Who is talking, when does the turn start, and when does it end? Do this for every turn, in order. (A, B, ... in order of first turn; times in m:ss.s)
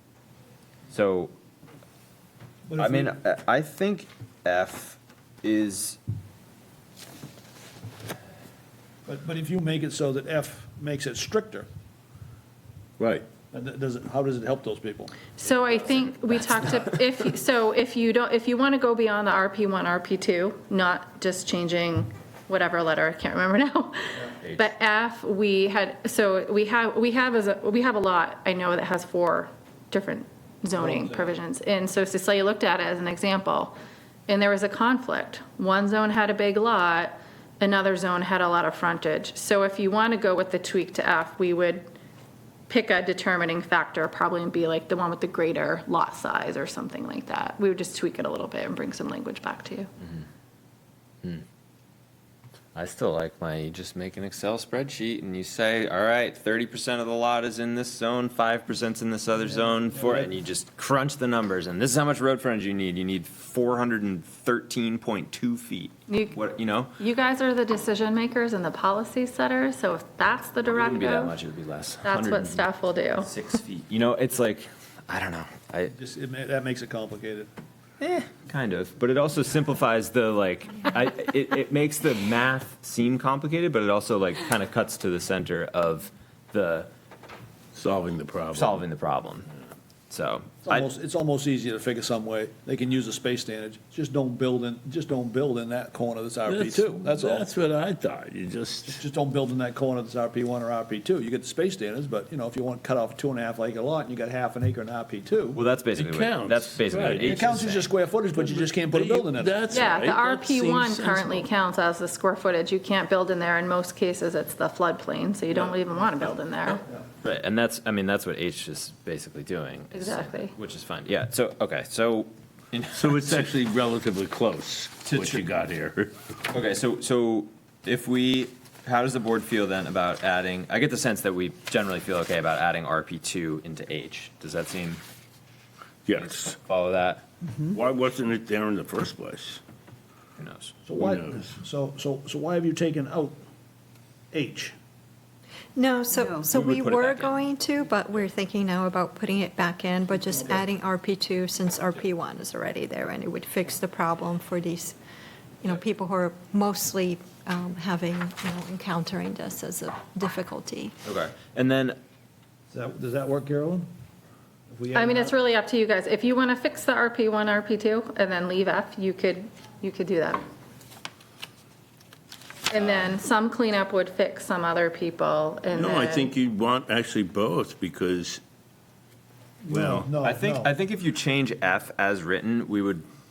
0:00.9-0:01.3 A
0:02.7-0:03.2 B
0:02.8-0:06.0 A
0:09.0-0:11.7 B
0:13.0-0:13.2 C
0:13.5-0:15.1 B
0:15.4-0:33.8 D
0:16.3-0:17.0 A
0:24.4-0:24.7 A
0:30.7-0:31.4 B
0:34.3-0:41.9 D
0:42.7-0:49.9 D
0:52.7-1:06.9 A
0:59.5-1:00.3 B
1:06.1-1:06.4 D
1:07.0-1:11.4 D
1:10.6-1:12.6 A
1:12.0-1:13.3 D
1:13.2-1:15.9 A
1:15.9-1:17.5 B
1:18.0-1:26.9 A
1:27.7-1:28.8 C
1:28.5-1:29.5 A
1:30.1-1:30.9 A
1:30.6-1:37.5 B
1:36.4-1:39.0 C
1:38.9-1:45.6 B
1:45.5-1:47.9 A
1:45.9-1:47.5 C
1:47.2-1:49.8 B
1:48.4-1:51.5 C
1:49.7-1:56.8 D
1:56.7-2:03.5 A
1:59.9-2:00.5 D
2:02.9-2:06.1 C
2:05.0-2:05.4 A
2:06.5-2:15.0 A
2:16.0-2:16.6 C
2:16.1-2:17.2 A
2:17.7-2:19.6 C
2:20.4-2:20.7 A
2:20.8-2:23.4 B
2:21.0-2:21.5 C
2:24.3-2:24.7 B
2:25.8-2:35.0 E
2:26.5-2:27.5 A
2:30.3-2:30.6 B
2:35.6-2:41.0 E
2:41.0-2:42.0 A
2:42.7-2:43.9 B
2:44.7-2:45.4 B
2:44.9-2:50.4 D
2:52.7-2:56.3 D
2:55.7-2:58.4 C
2:59.6-3:00.7 B
2:59.7-3:00.1 C
3:00.2-3:03.0 A